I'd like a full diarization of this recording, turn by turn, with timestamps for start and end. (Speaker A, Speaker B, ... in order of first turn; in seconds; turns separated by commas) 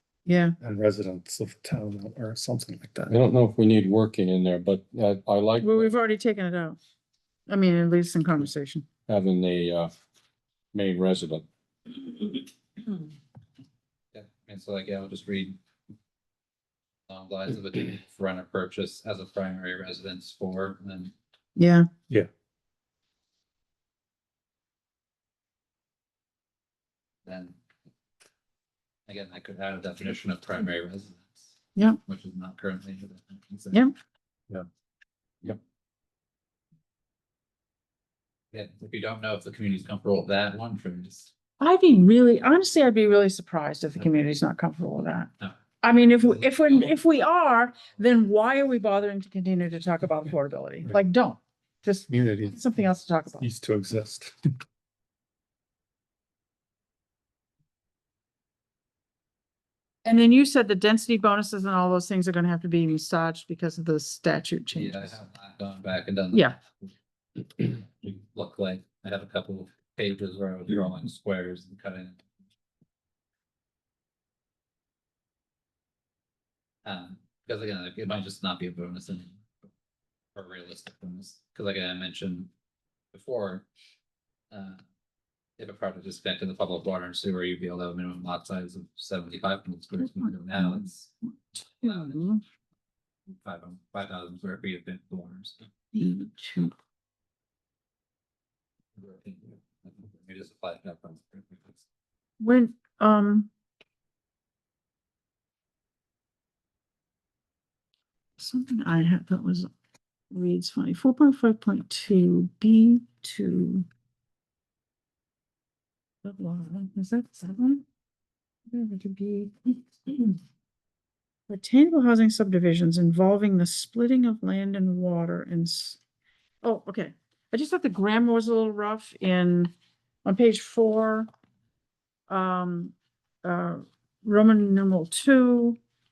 Speaker A: 0.3-0.6, Speaker B: 0.6-3.2, Speaker C: 3.1-5.9, Speaker A: 5.6-6.8, Speaker A: 7.5-8.9, Speaker C: 9.1-9.9, Speaker C: 10.7-11.4, Speaker D: 14.1-15.6, Speaker D: 17.1-21.1, Speaker A: 21.6-21.9, Speaker D: 27.3-27.6, Speaker D: 29.1-31.4, Speaker D: 32.1-33.8, Speaker D: 38.5-41.3, Speaker A: 41.6-45.3, Speaker A: 45.8-53.5, Speaker D: 46.3-47.0, Speaker B: 52.1-52.7, Speaker B: 53.4-54.5, Speaker A: 60.0-65.2, Speaker D: 64.7-66.9, Speaker A: 66.3-66.6, Speaker D: 67.4-72.2, Speaker D: 76.8-79.4, Speaker D: 80.3-82.5, Speaker D: 83.1-83.7, Speaker D: 84.5-84.8, Speaker D: 85.6-91.1, Speaker A: 90.2-90.8, Speaker A: 91.8-92.4, Speaker D: 91.8-92.2, Speaker D: 93.4-95.6, Speaker A: 95.9-96.7, Speaker D: 99.0-101.8, Speaker A: 102.4-103.5, Speaker A: 108.4-109.7, Speaker A: 110.3-113.9, Speaker A: 116.2-117.8, Speaker A: 118.7-120.4, Speaker A: 121.5-126.0, Speaker A: 126.6-129.7, Speaker A: 130.2-131.3, Speaker A: 132.3-135.8